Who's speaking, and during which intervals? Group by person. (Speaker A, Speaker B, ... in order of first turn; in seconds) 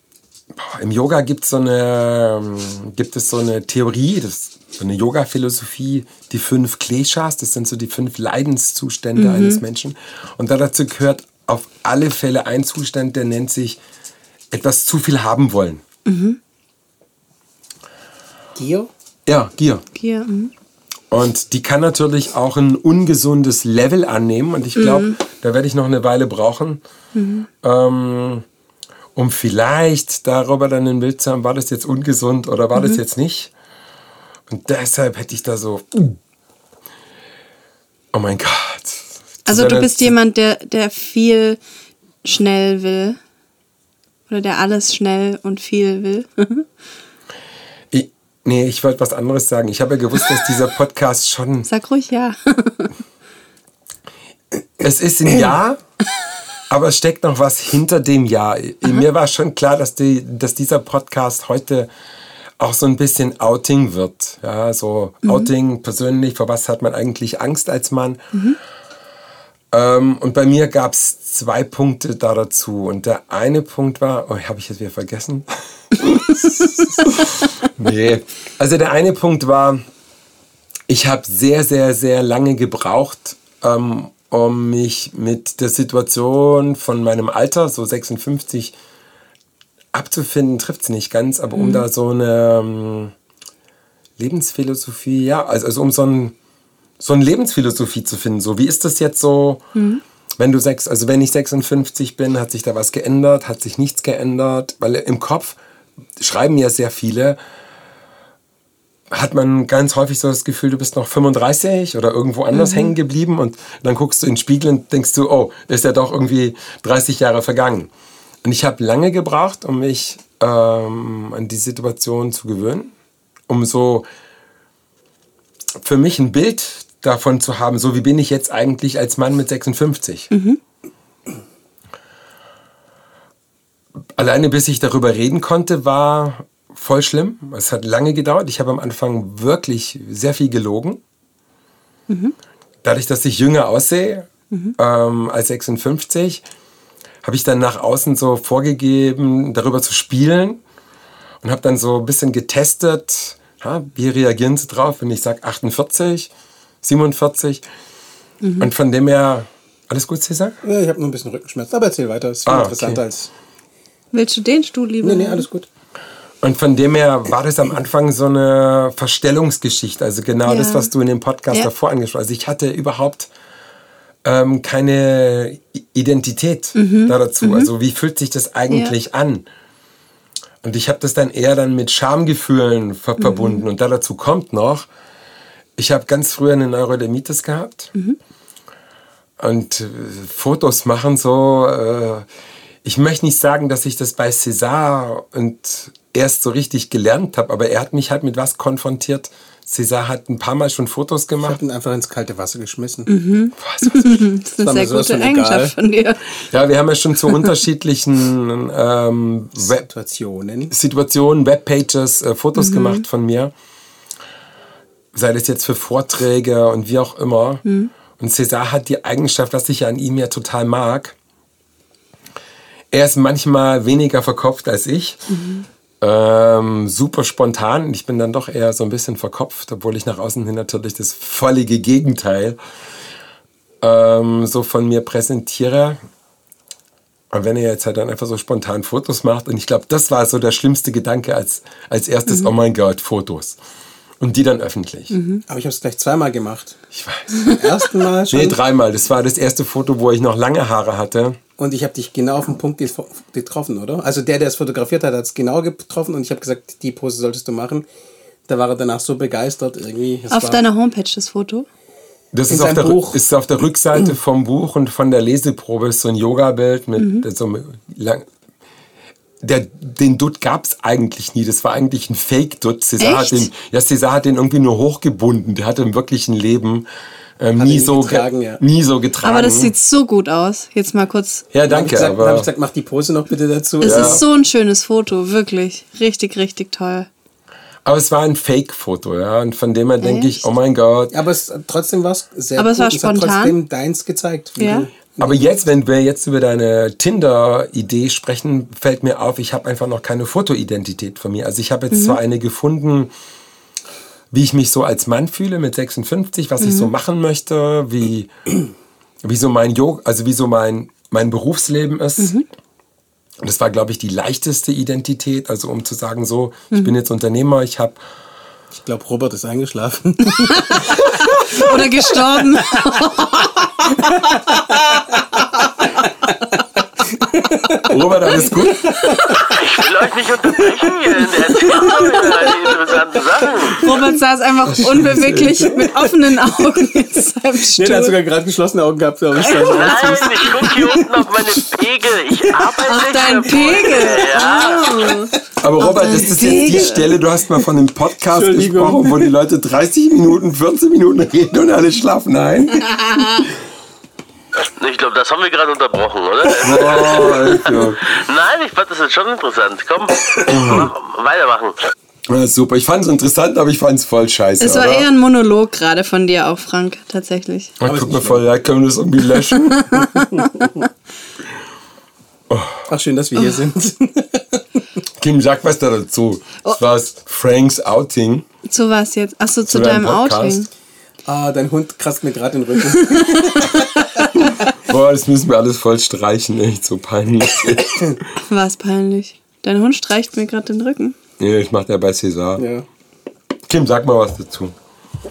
Speaker A: 0.6-13.8, 14.5-15.8, 19.3-19.8, 21.1-26.8, 27.6-28.4, 29.2-33.5, 34.5-36.2, 38.1-40.1, 47.9-51.7, 54.8-55.8, 56.7-61.9, 62.6-68.2, 69.7-75.5, 76.0-76.5, 77.0-79.8, 80.9-88.8, 89.9-93.1, 94.2-96.3, 97.0-99.7, 100.4-105.6, 106.2-107.4, 109.1-117.9, 118.4-122.9, 123.5-124.1, 125.8-130.3, 134.2-141.0, 142.8-146.4, 147.2-150.6, 151.4-156.3, 156.8-157.6, 158.6-160.6, 162.5-163.0, 166.4-173.3, 174.2-179.5, 180.6-184.9, 185.8-187.9, 189.4-192.3, 192.8-201.6, 203.6-204.3, 206.5-209.9, 210.7-213.5, 215.1-217.6, 218.2-221.2, 222.9-225.2, 226.0-232.6, 233.8-236.0, 237.3-243.6, 244.2-245.2, 246.9-247.5, 248.3-251.4, 262.3-268.3, 269.4-276.9, 277.4-279.7, 281.5-282.5, 283.8-284.2, 287.9-291.2, 295.2-303.1, 304.3-308.3, 309.2-312.4, 313.4-318.0, 327.9-328.9, 334.7-335.9, 345.6-353.4, 356.6-358.1, 360.5-360.9, 362.3-365.1, 367.8-370.0, 372.5-372.9, 375.2-378.4, 379.7-380.6, 384.5-388.2, 391.4-392.6, 393.7-394.7
Speaker B: 9.2-9.6, 16.1-16.4, 19.9-20.5, 24.8-25.2, 27.1-27.5, 32.8-33.0, 39.5-41.6, 42.2-43.2, 44.3-46.7, 51.6-52.9, 65.2-65.5, 91.5-91.9, 99.8-100.0, 112.5-112.9, 130.3-130.6, 142.1-142.3, 144.5-144.8, 158.4-158.7, 164.1-165.5, 170.5-170.9, 176.8-177.7, 183.2-183.7, 203.1-206.2, 212.6-213.1, 217.7-217.9, 225.3-225.7, 245.1-245.4, 260.3-261.7, 267.0-267.3, 273.0-273.5, 279.2-281.4, 283.8-287.1, 290.0-290.5, 292.6-293.6, 294.6-294.9, 301.9-302.2, 306.6-306.9, 312.2-312.4, 316.7-317.0, 320.4-324.8, 333.8-338.2, 339.4-340.3, 342.7-347.2, 364.6-367.7, 369.8-370.9, 378.7-380.7, 388.5-391.2
Speaker C: 18.6-18.9, 160.6-163.3, 165.0-165.7, 201.4-203.1, 204.6-205.7, 209.6-210.7, 245.5-246.8, 247.5-248.6, 251.6-257.9, 258.5-260.6, 262.5-263.2, 277.6-278.6, 281.7-284.2, 291.1-295.6, 318.7-321.1, 324.2-326.3, 327.3-329.9, 330.4-333.9, 335.6-336.1, 337.7-341.7, 342.4-345.1, 348.2-349.3, 367.8-368.5, 372.9-374.6, 381.3-384.1, 392.6-392.9
Speaker D: 329.4-333.8, 339.6-345.0, 354.8-361.8